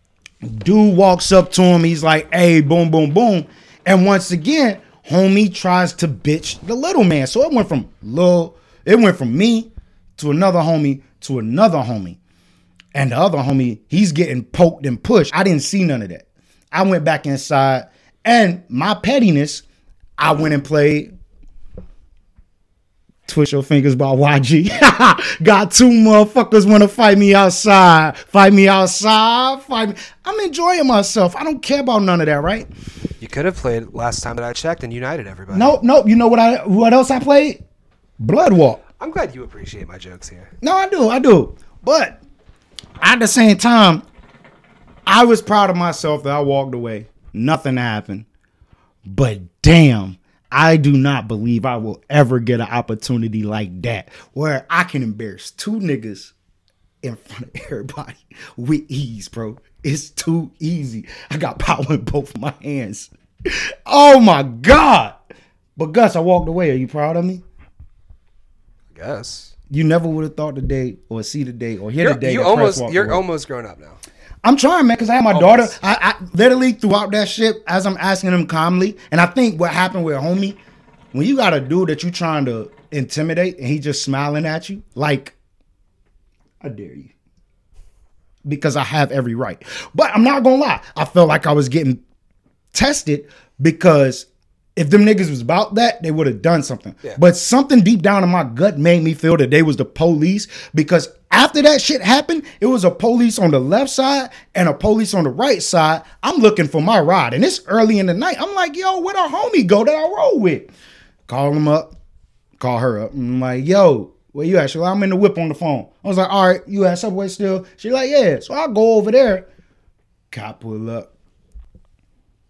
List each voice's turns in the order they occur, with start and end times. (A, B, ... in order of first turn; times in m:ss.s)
0:00.4-0:12.2 A
0:12.9-0:19.6 A
0:20.2-0:21.1 A
0:23.3-0:32.7 A
0:33.2-0:35.8 B
0:35.5-0:37.6 A
0:38.2-0:38.8 A
0:39.0-0:40.5 B
0:40.6-0:42.2 A
0:43.0-0:44.0 A
0:45.1-0:48.3 A
0:49.1-0:56.3 A
0:57.0-1:05.2 A
1:05.8-1:07.4 A
1:08.9-1:09.5 B
1:09.7-1:13.2 A
1:12.0-1:14.0 B
1:14.4-1:20.6 A
1:15.3-1:15.8 B
1:21.1-1:25.3 A
1:26.6-1:27.1 A
1:28.4-1:32.0 A
1:32.7-1:50.7 A
1:51.3-1:51.9 A
1:52.6-1:59.5 A
2:00.3-2:01.1 A